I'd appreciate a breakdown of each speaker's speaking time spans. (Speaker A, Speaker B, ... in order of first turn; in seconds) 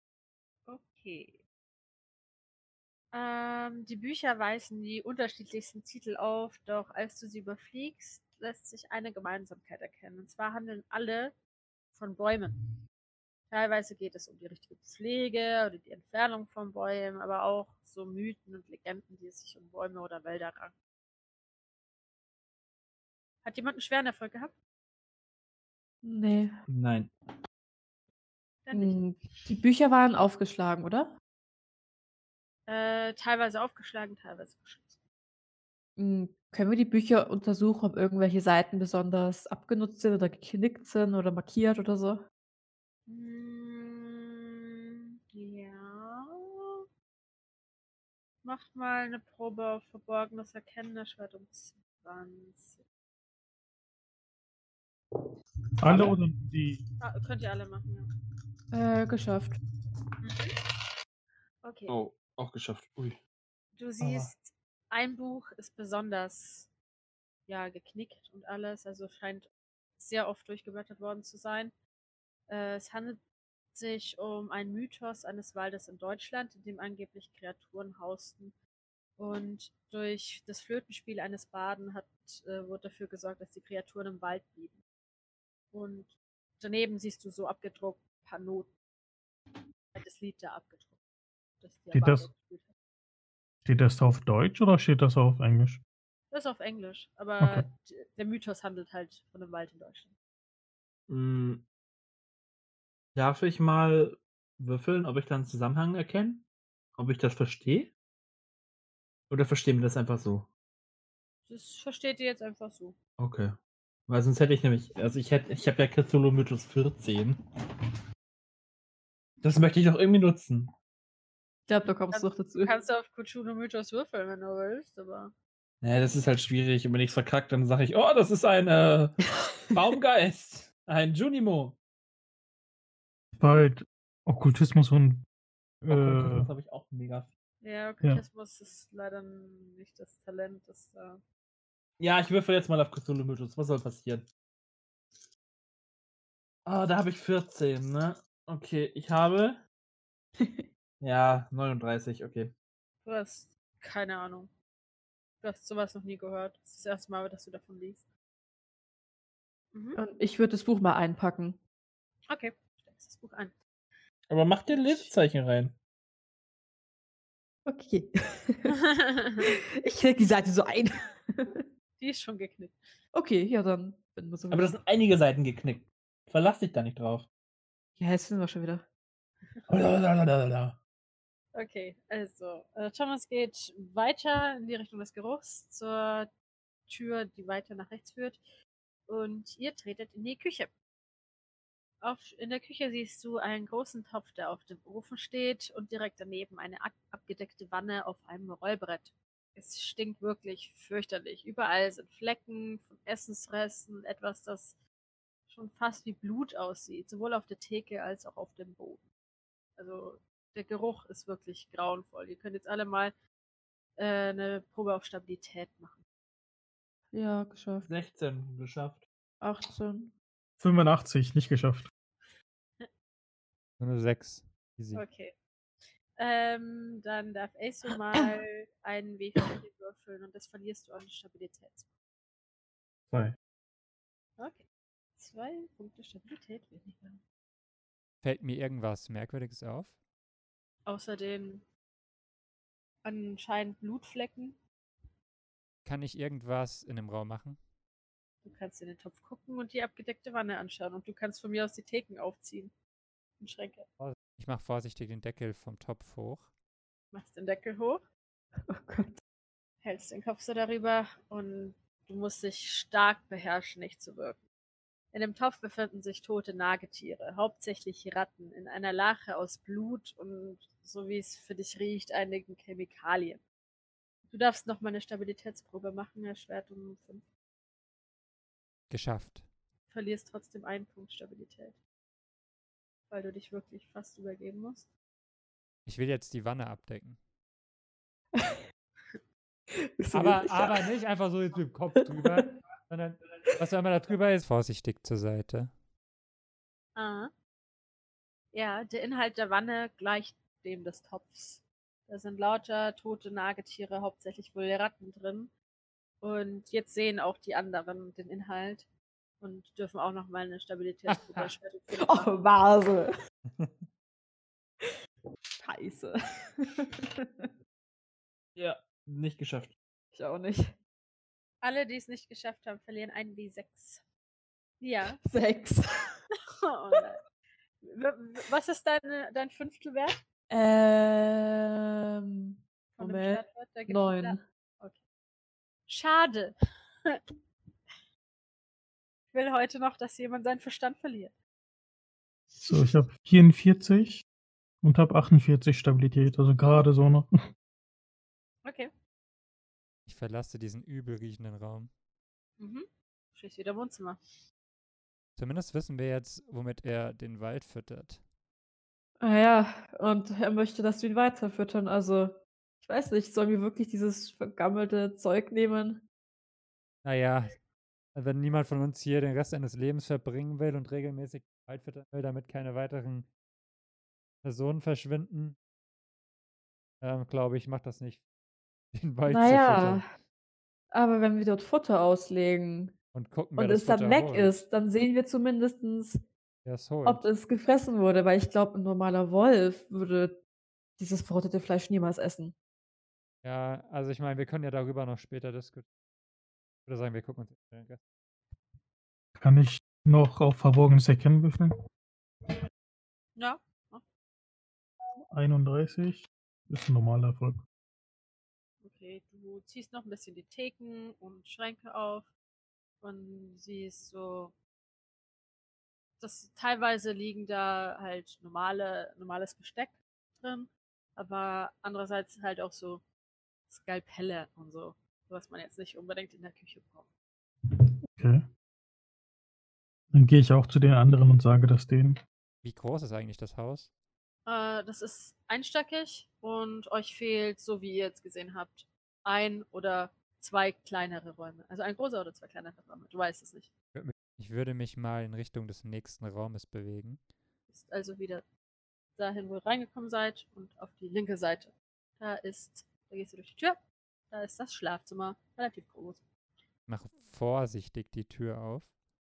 Speaker A: 0.7-1.4, 3.1-11.3, 11.9-12.6, 13.5-20.8, 23.4-24.6, 28.6-29.0, 32.7-35.0, 43.1-44.6, 45.3-46.7, 48.4-52.8, 57.0-58.0, 60.2-60.5, 61.6-62.0, 63.8-66.7, 67.5-71.7, 72.5-73.2, 73.7-78.5, 79.2-84.8, 85.7-88.7, 89.9-91.0, 91.6-92.7, 96.3-100.1, 111.5-113.0, 122.1-125.3, 137.6-141.2, 153.0-154.5, 155.4-158.1, 159.7-160.0, 162.2-163.6, 164.7-165.1, 168.9-169.5, 172.0-172.8, 181.5-186.3, 186.9-188.4, 189.1-190.7, 192.0-204.8, 205.5-209.1, 209.8-213.2, 214.0-216.0, 222.2-222.9, 224.9-231.9, 234.4-234.7, 235.2-237.2, 240.9-241.7, 243.0-244.6, 248.4-252.7, 253.4-253.9, 257.1-258.1, 259.8-264.4, 265.1-273.4, 274.3-277.2, 279.9-281.8, 283.1-284.9, 296.9-297.3, 298.5-305.5, 306.2-308.9, 309.4-312.3, 321.6-324.0, 324.8-325.2, 326.7-327.2, 327.8-330.2, 332.9-335.0, 335.9-336.6, 339.3-341.4, 348.6-348.9, 352.6-354.2, 403.4-404.0, 408.8-412.3, 413.0-414.6, 416.2-423.0, 423.7-427.1, 434.5-443.7, 447.7-448.4, 449.2-453.8, 454.3-456.2
Speaker B: 26.0-26.6, 28.7-31.1, 36.0-42.2, 58.7-59.5, 121.7-122.7, 150.4-150.7, 160.0-161.6, 167.7-168.8, 169.5-171.7, 173.1-174.8, 178.0-178.8, 217.1-217.9, 219.4-220.1, 258.7-259.2, 288.4-288.6, 289.7-290.9, 292.0-292.5, 312.0-313.1, 315.6-317.5, 320.1-320.7, 325.2-326.2, 330.5-334.4, 359.2-366.0, 379.3-380.1, 380.9-382.9, 383.6-386.2, 387.1-390.4, 391.0-392.5
Speaker C: 26.7-27.1, 55.9-56.2, 61.9-63.2, 64.0-64.3, 101.1-101.7, 103.2-106.4, 107.0-107.9, 109.3-110.5, 113.2-113.5, 114.1-117.4, 119.4-120.7, 125.8-129.2, 129.7-131.8, 135.9-137.3, 142.0-144.3, 146.7-149.6, 151.0-152.5, 164.3-165.8, 174.5-177.3, 179.7-180.8, 217.8-219.0, 318.6-319.8
Speaker D: 55.8-56.8, 91.9-92.3, 93.7-95.8, 97.4-97.7, 133.4-135.2, 135.8-136.5, 220.6-221.9, 233.1-233.4, 342.6-344.2, 344.8-347.3, 399.4-401.7, 405.3-407.6, 427.7-428.4, 430.1-432.2
Speaker E: 223.8-225.1, 238.2-240.0, 245.8-247.6, 254.0-256.5, 278.9-279.5, 285.9-287.2, 290.1-295.7, 311.1-311.5, 313.5-313.9, 350.1-351.9, 355.4-358.2, 367.0-367.6, 368.1-373.3, 374.4-375.6, 377.0-378.2, 378.9-380.1, 383.1-384.6, 386.6-387.2, 393.4-395.9, 396.9-398.0, 432.6-433.9, 443.9-447.2, 456.9-458.9